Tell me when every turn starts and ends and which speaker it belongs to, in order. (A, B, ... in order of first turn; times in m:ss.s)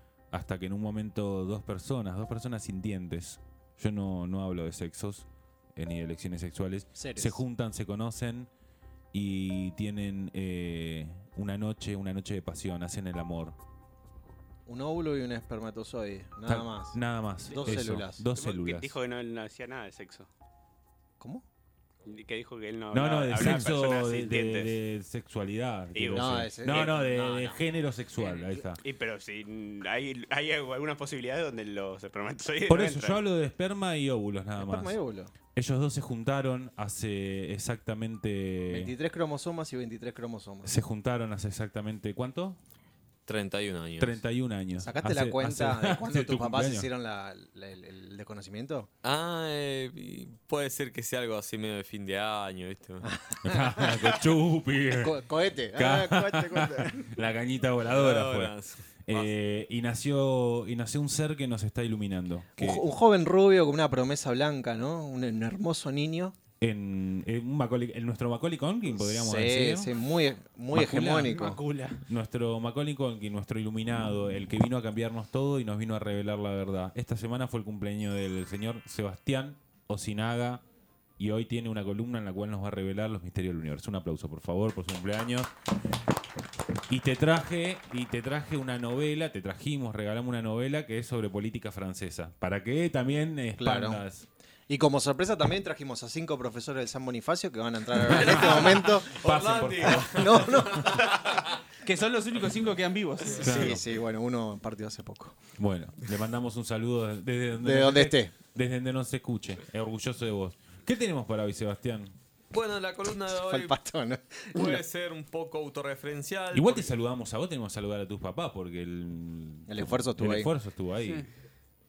0:00.3-0:08.5 A
0:07.0-0:07.4 B
0:09.1-0:13.6 A
0:14.7-0:17.0 B
0:16.5-0:18.9 A
0:17.5-0:18.2 B
0:17.5-0:20.3 C
0:21.2-0:21.4 B
0:22.0-0:24.7 C
0:22.9-0:28.8 A
0:25.9-0:26.9 C
0:26.1-0:27.6 B
0:28.2-0:33.2 C
0:32.7-0:35.0 A
0:34.6-0:35.3 B
0:35.5-0:38.9 A
0:38.7-0:40.7 B
0:40.6-0:42.6 A
0:43.3-0:44.2 D
0:44.0-0:46.9 A
0:44.8-0:48.9 B
0:49.0-0:53.1 D
0:53.0-0:54.2 B
0:53.4-0:55.1 A
0:54.9-0:57.1 B
0:55.8-0:58.5 A
0:57.9-0:59.3 D
0:59.0-1:02.8 A
1:02.6-1:06.4 B
1:06.6-1:09.9 A
1:08.9-1:11.6 B
1:10.7-1:11.3 A
1:11.2-1:12.0 E
1:12.1-1:20.6 A
1:21.2-1:25.5 A
1:26.9-1:34.2 A
1:33.6-1:34.0 B
1:34.7-1:39.3 B
1:38.2-1:40.8 A
1:38.9-1:41.6 D
1:39.8-1:41.3 B
1:41.8-1:43.7 E
1:43.4-1:43.8 A
1:43.4-1:45.4 B
1:45.6-1:52.2 A
1:47.6-1:48.3 B
1:52.5-1:53.8 D
1:53.3-1:54.8 B
1:54.5-1:56.9 D
1:56.5-2:01.2 A
1:59.7-2:00.5 B